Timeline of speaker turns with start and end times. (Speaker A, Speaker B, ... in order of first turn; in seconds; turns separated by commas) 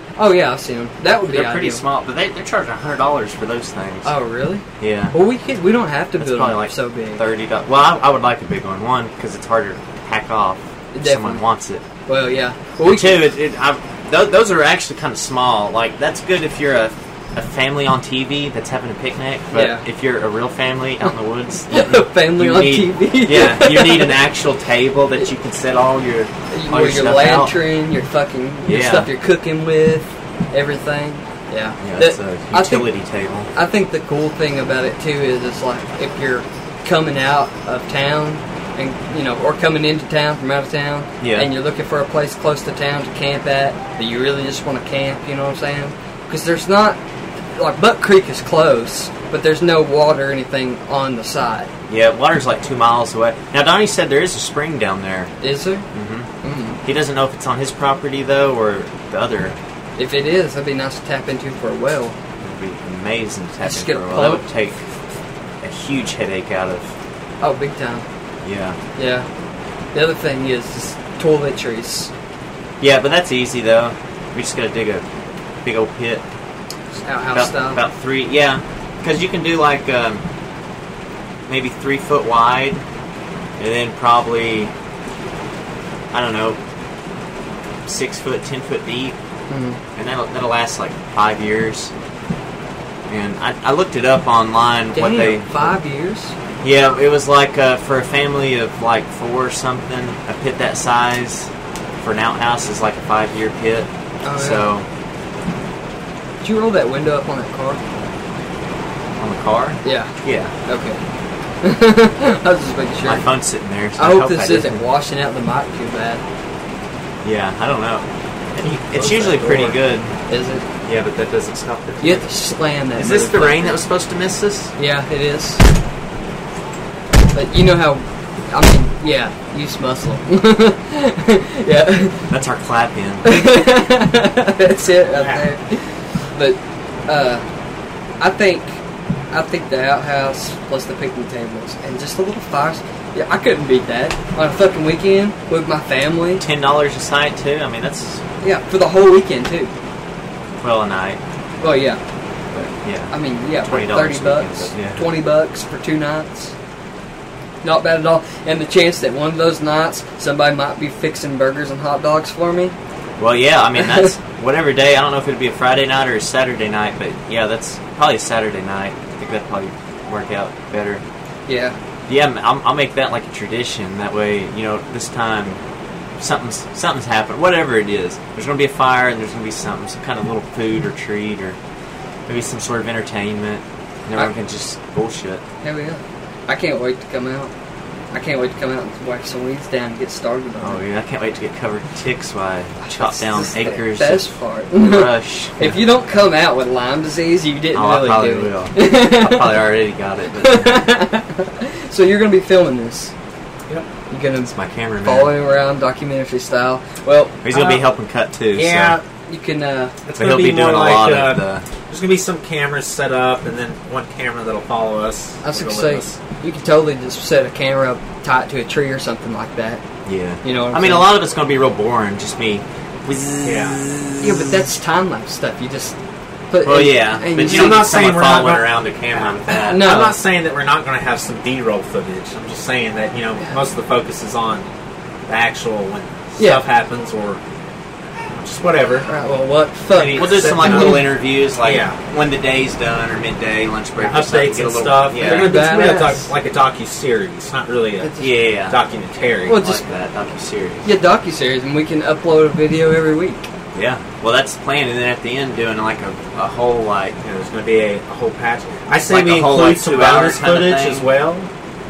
Speaker A: 0.2-1.8, Speaker B: 1.1-4.1, Speaker A: 4.0-7.2, Speaker B: 4.8-5.2, Speaker B: 6.2-11.8, Speaker A: 10.9-11.4, Speaker A: 12.1-13.3, Speaker B: 12.8-27.6, Speaker A: 19.5-19.9, Speaker A: 21.7-24.2, Speaker A: 26.5-32.9, Speaker B: 28.6-29.1, Speaker B: 31.8-33.5, Speaker A: 33.5-47.0, Speaker B: 41.2-41.5, Speaker A: 47.5-51.7, Speaker B: 51.9-55.3, Speaker A: 55.4-55.9, Speaker B: 55.9-56.3, Speaker A: 56.4-56.8, Speaker B: 56.8-59.6, Speaker A: 60.0-62.2, Speaker B: 62.4-64.8, Speaker A: 63.6-64.5, Speaker B: 65.6-66.9, Speaker A: 67.4-68.0, Speaker B: 68.4-68.8, Speaker A: 69.0-69.3, Speaker A: 69.9-72.1, Speaker B: 72.8-75.0, Speaker B: 75.6-76.2, Speaker A: 77.0-77.8, Speaker B: 77.3-80.2, Speaker B: 81.5-82.8, Speaker B: 83.6-84.7, Speaker B: 86.1-86.6, Speaker B: 87.9-89.2, Speaker A: 89.5-89.8, Speaker B: 90.0-91.9, Speaker B: 93.1-95.7, Speaker A: 94.9-96.3, Speaker B: 96.6-104.9, Speaker A: 104.2-104.7, Speaker A: 106.4-107.8, Speaker B: 109.2-110.5, Speaker A: 109.8-110.1, Speaker A: 110.7-111.0, Speaker A: 111.6-113.3, Speaker B: 113.0-114.8, Speaker A: 114.0-116.2, Speaker B: 117.2-120.1, Speaker C: 118.6-119.8, Speaker A: 120.3-120.7, Speaker B: 120.8-122.3, Speaker A: 122.0-123.8, Speaker B: 123.0-124.7, Speaker A: 124.8-125.6, Speaker A: 127.3-132.2, Speaker B: 132.3-133.6, Speaker A: 133.2-137.4, Speaker C: 135.1-135.5, Speaker A: 138.2-138.8, Speaker A: 139.3-146.4, Speaker B: 146.4-148.2, Speaker A: 148.4-149.7, Speaker B: 150.6-151.2, Speaker A: 151.6-152.0, Speaker B: 152.5-155.1, Speaker A: 153.1-156.5, Speaker A: 157.6-162.8, Speaker B: 163.2-171.0, Speaker A: 163.8-164.1, Speaker A: 171.5-171.8, Speaker B: 172.1-175.6, Speaker B: 176.2-181.6, Speaker B: 182.3-185.4, Speaker A: 185.6-187.5, Speaker A: 188.1-190.8, Speaker B: 190.6-195.8, Speaker A: 192.8-199.6, Speaker B: 197.7-200.8, Speaker A: 200.4-203.1, Speaker A: 204.1-207.7, Speaker B: 204.5-205.3, Speaker B: 207.4-209.0, Speaker C: 208.6-209.0, Speaker A: 209.3-209.9, Speaker C: 210.1-216.2, Speaker B: 210.2-211.7, Speaker A: 215.4-219.8, Speaker B: 220.1-224.5, Speaker A: 220.4-221.1, Speaker C: 223.4-223.9, Speaker A: 224.2-226.0, Speaker A: 226.5-227.8, Speaker B: 226.6-230.1, Speaker C: 227.4-234.7, Speaker A: 229.6-230.2, Speaker C: 235.3-237.4, Speaker A: 236.4-236.6, Speaker C: 238.3-239.1, Speaker A: 239.1-241.1, Speaker B: 239.9-245.7, Speaker C: 240.1-242.0, Speaker C: 244.0-249.6, Speaker A: 245.2-246.3, Speaker A: 248.0-248.4, Speaker B: 248.2-248.8, Speaker A: 249.4-249.8, Speaker B: 249.5-250.9, Speaker A: 250.8-253.4, Speaker B: 253.7-257.2, Speaker C: 257.2-261.5, Speaker B: 259.1-261.1